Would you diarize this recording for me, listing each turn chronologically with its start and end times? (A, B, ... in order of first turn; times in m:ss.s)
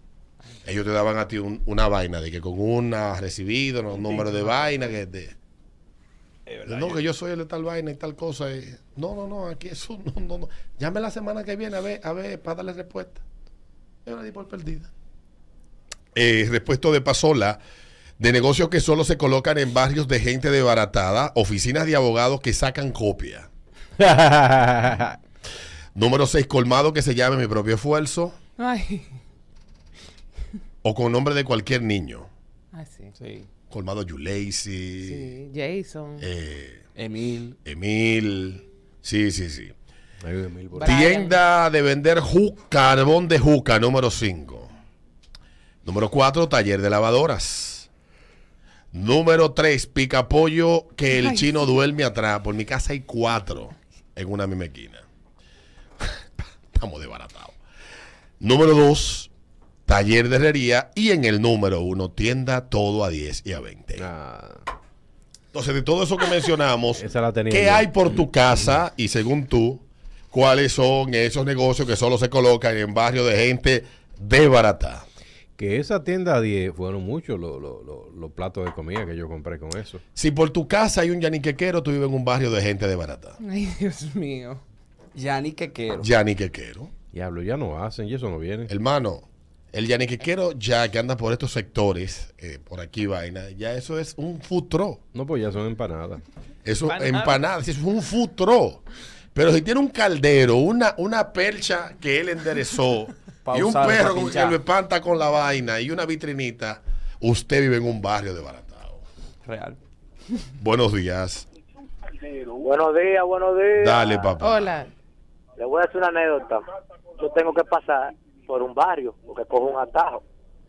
0:00.6-0:05.3 A
0:06.5-0:07.0 B
0:06.6-0:13.2 A
0:14.0-0:14.9 A
0:16.1-0:17.6 A
0:18.2-0:23.5 A
0:24.0-0:25.2 B
0:25.9-0:28.4 A
0:28.6-0:29.2 C
0:30.8-0:32.3 A
0:32.7-0:33.1 C
0:33.2-0:33.5 D
0:33.7-0:35.4 A
0:35.0-0:36.2 C
0:36.2-0:36.8 A
0:37.0-0:37.6 D
0:37.6-0:39.7 A
0:40.2-0:41.0 B
0:40.7-0:41.4 C
0:40.8-0:44.7 A
0:45.8-0:47.9 A
0:48.9-0:55.0 A
0:51.1-0:51.5 C
0:56.0-0:57.6 A
0:58.4-0:59.3 A
0:59.9-1:04.1 A
1:04.0-1:04.6 B
1:05.5-1:15.0 A
1:07.0-1:07.9 B
1:15.6-1:20.0 B
1:20.1-1:23.4 A
1:23.4-1:24.6 C
1:25.1-1:26.1 D
1:26.0-1:26.9 A
1:27.1-1:28.7 B
1:28.7-1:35.0 A
1:35.1-1:36.2 B
1:36.6-1:38.8 A
1:36.9-1:37.3 C
1:39.3-1:49.0 A
1:43.4-1:44.6 D
1:49.4-1:49.8 D
1:50.6-1:51.4 A
1:52.5-1:54.3 E
1:53.8-1:54.8 A
1:54.4-1:54.9 C
1:55.6-1:56.6 E
1:57.2-2:00.2 E